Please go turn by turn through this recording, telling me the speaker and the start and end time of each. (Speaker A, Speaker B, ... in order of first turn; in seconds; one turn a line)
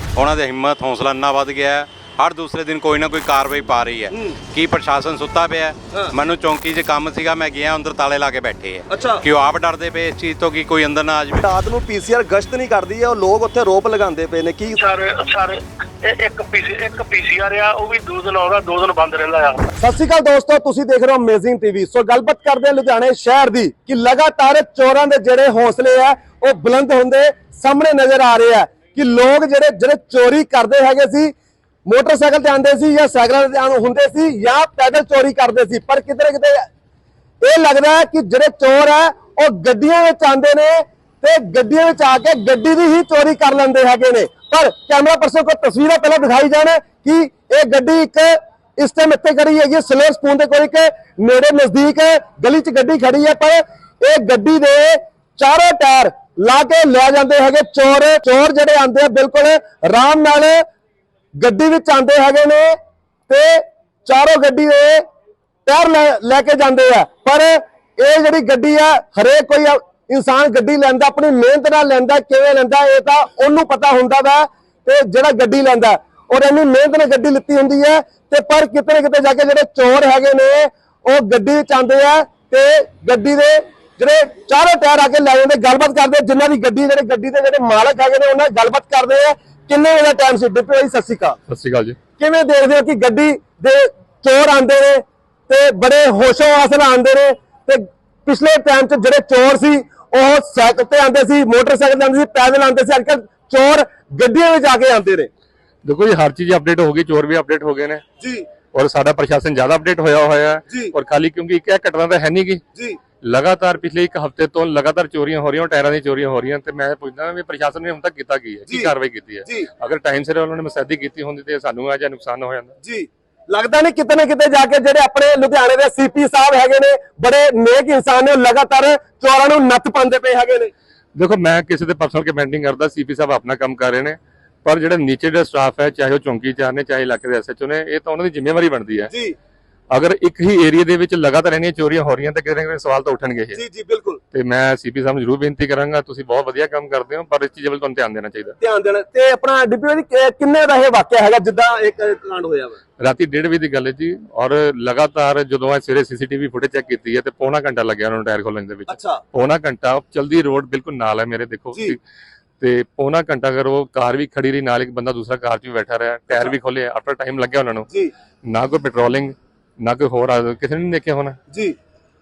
Speaker A: 0.1-11.4
Speaker B: 4.1-4.4
Speaker B: 8.9-9.2
Speaker B: 11.4-14.8
Speaker C: 14.7-19.6
Speaker B: 19.8-31.3
Speaker B: 31.9-36.7
Speaker B: 37.4-60.6
Speaker B: 61.4-62.7
Speaker B: 63.3-65.0
Speaker B: 65.7-91.4
Speaker D: 91.5-92.0
Speaker B: 92.2-105.3
Speaker D: 105.8-108.0
Speaker B: 108.2-108.4
Speaker D: 108.7-112.6
Speaker D: 113.2-122.7
Speaker B: 122.8-130.7
Speaker D: 131.2-139.1
Speaker B: 139.1-139.3
Speaker D: 139.9-143.6
Speaker B: 143.5-144.2
Speaker D: 144.3-148.6
Speaker B: 148.6-152.8
Speaker D: 153.0-162.0
Speaker B: 158.9-159.2
Speaker D: 162.6-167.9
Speaker D: 168.5-171.4